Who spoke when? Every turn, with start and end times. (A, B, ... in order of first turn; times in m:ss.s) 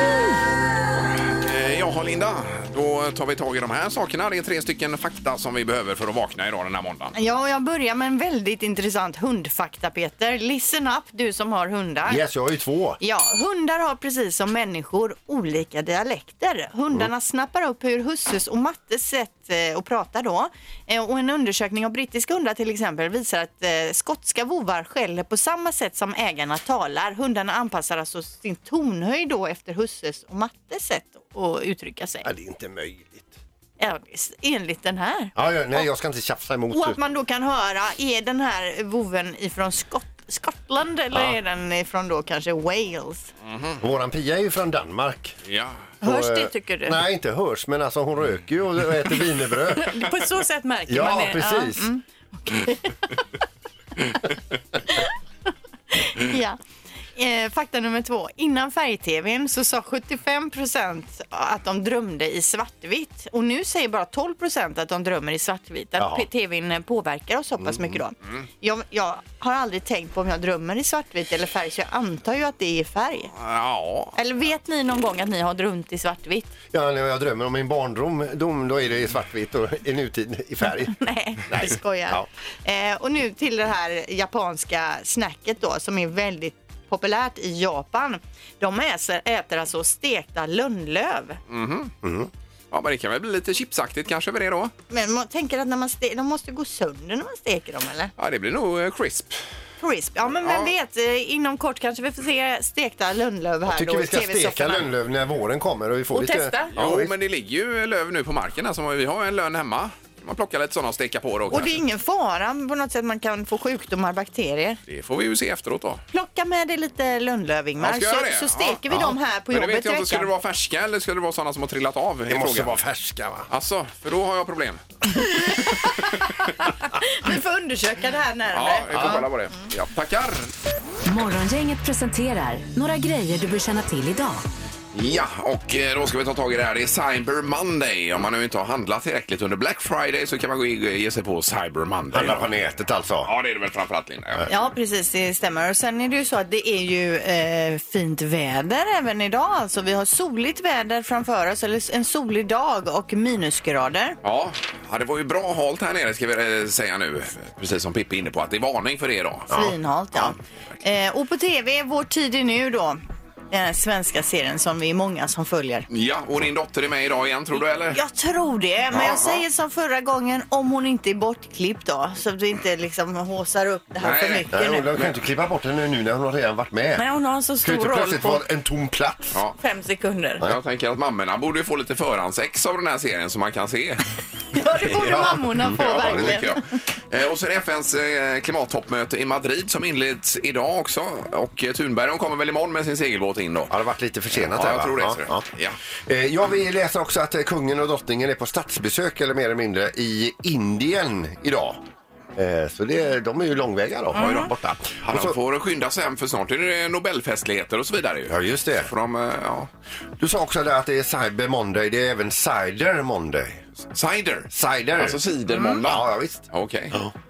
0:01.2-0:07.2 A
0:07.2-0:12.2 B
0:12.1-0:13.0 C
0:13.0-0:32.3 B
0:32.2-0:33.3 C
0:33.8-0:35.9 B
0:35.4-0:37.0 C
0:36.7-0:43.3 B
0:43.5-0:43.8 A
0:43.8-0:45.4 C
0:45.5-0:45.8 A
0:46.0-0:47.0 B
0:46.0-0:50.0 C
0:49.8-0:53.1 B
0:50.9-0:51.8 C
0:55.9-0:56.6 B
0:57.2-1:13.3 B
1:06.0-1:06.3 C
1:13.4-1:14.1 A
1:14.2-1:16.5 B
1:16.7-1:22.3 C
1:21.0-1:31.4 B
1:31.5-1:31.9 A
1:32.0-1:32.3 C
1:32.7-1:34.7 A
1:34.9-1:38.1 B
1:38.2-1:39.4 A
1:39.8-1:44.9 B
1:40.4-1:40.7 A
1:43.7-1:47.1 C
1:46.1-1:46.7 B
1:46.8-1:51.7 A
1:51.5-1:54.8 B
1:54.9-1:56.0 A
1:56.1-2:00.3 B
1:57.8-2:02.8 A
2:02.3-2:03.5 C
2:03.5-2:04.8 A
2:05.3-2:09.3 B
2:08.5-2:10.5 A
2:11.1-2:14.4 D
2:14.9-2:22.5 A
2:22.1-2:23.3 C
2:23.2-2:24.4 A
2:24.5-2:34.2 B
2:34.2-2:39.5 A
2:39.5-2:39.8 C
2:39.5-2:43.0 B
2:43.5-2:45.9 B
2:45.9-2:48.0 A
2:47.9-2:54.9 B
2:54.0-2:55.2 A
2:54.5-2:57.0 C
2:57.0-2:58.4 B
2:57.6-2:59.4 C
2:59.6-3:00.4 B
3:00.4-3:04.0 A
3:04.5-3:06.6 B
3:05.0-3:13.7 A
3:05.2-3:06.4 C
3:13.7-3:15.4 C
3:14.3-3:15.8 A
3:16.1-3:21.8 C
3:22.4-3:25.4 C
3:24.1-3:24.5 B
3:24.2-3:24.4 A
3:25.0-3:29.7 A
3:28.3-3:28.9 C
3:30.2-3:33.6 C
3:33.9-3:37.0 A
3:34.5-3:37.1 C